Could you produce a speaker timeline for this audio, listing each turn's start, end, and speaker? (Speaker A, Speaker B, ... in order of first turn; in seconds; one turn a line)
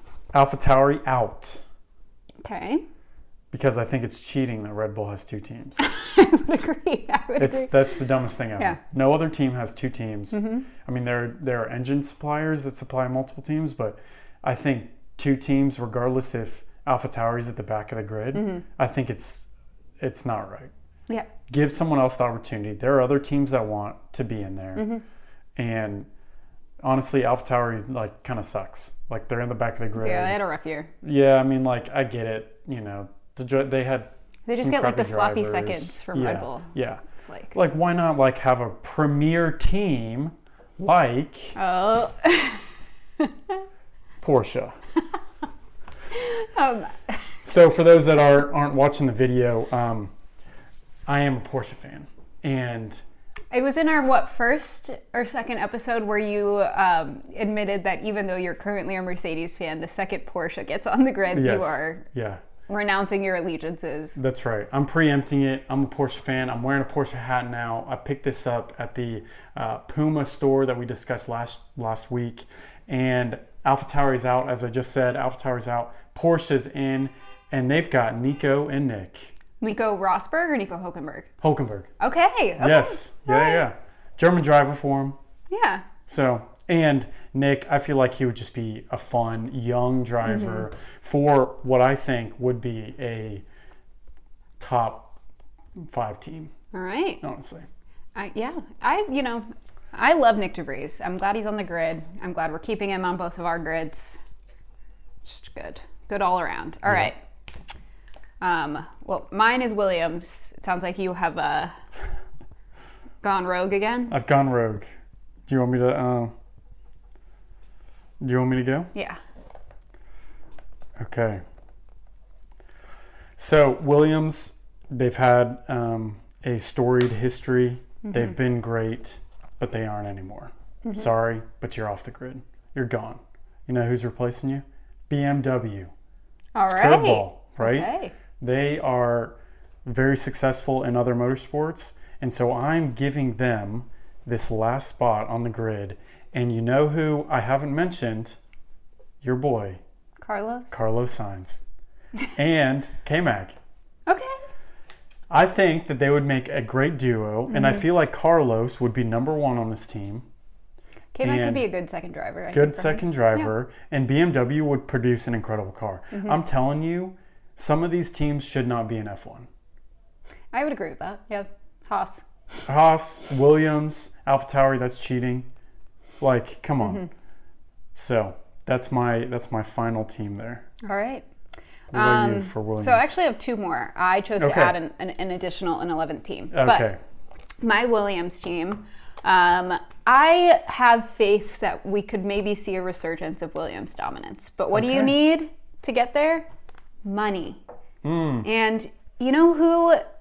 Speaker A: 0.3-1.6
Speaker B: 2.4-2.8
Speaker A: 3.5-5.8
Speaker B: 5.8-7.9
Speaker A: 7.4-19.5
Speaker B: 10.3-10.7
Speaker B: 18.3-18.6
Speaker A: 20.0-20.7
Speaker A: 21.5-24.9
Speaker B: 24.8-25.0
Speaker A: 25.6-26.1
Speaker A: 26.8-30.4
Speaker B: 29.9-30.9
Speaker A: 31.0-37.0
Speaker B: 34.5-37.5
Speaker A: 37.5-41.5
Speaker B: 41.5-42.6
Speaker B: 43.2-43.6
Speaker A: 44.2-44.8
Speaker B: 46.1-47.3
Speaker A: 47.4-50.1
Speaker A: 51.1-53.0
Speaker B: 53.5-62.0
Speaker A: 61.3-62.4
Speaker B: 62.7-64.2
Speaker A: 64.2-79.3
Speaker B: 79.6-81.3
Speaker A: 81.4-81.9
Speaker B: 82.0-83.6
Speaker A: 82.6-85.2
Speaker B: 85.5-85.8
Speaker A: 86.0-93.4
Speaker B: 90.2-90.7
Speaker A: 94.6-95.2
Speaker A: 95.8-96.5
Speaker B: 96.7-97.2
Speaker A: 97.2-97.7
Speaker B: 98.2-104.2
Speaker B: 105.2-107.2
Speaker A: 106.9-107.1
Speaker B: 108.4-111.8
Speaker B: 113.2-114.1
Speaker A: 114.1-114.9
Speaker A: 115.5-116.3
Speaker A: 118.2-118.9
Speaker B: 118.9-119.2
Speaker A: 121.0-121.4
Speaker A: 123.4-135.9
Speaker B: 128.0-128.3
Speaker B: 136.5-138.1
Speaker A: 136.7-148.4
Speaker A: 149.2-149.8
Speaker B: 150.2-150.7
Speaker A: 150.7-151.6
Speaker A: 152.3-153.6
Speaker B: 154.1-154.4
Speaker A: 155.3-160.2
Speaker B: 157.5-157.8
Speaker B: 161.1-163.5
Speaker A: 161.2-161.7
Speaker A: 162.5-169.5
Speaker B: 166.1-166.4
Speaker B: 170.5-172.2
Speaker A: 172.7-175.5
Speaker A: 176.2-177.0
Speaker B: 176.8-177.1
Speaker A: 177.9-180.7
Speaker B: 180.8-181.2
Speaker A: 181.9-183.2
Speaker B: 181.9-186.9
Speaker A: 184.4-184.8
Speaker A: 186.5-187.0
Speaker B: 187.6-196.5
Speaker A: 194.7-195.2
Speaker B: 197.0-197.6
Speaker A: 198.0-198.4
Speaker B: 198.4-200.1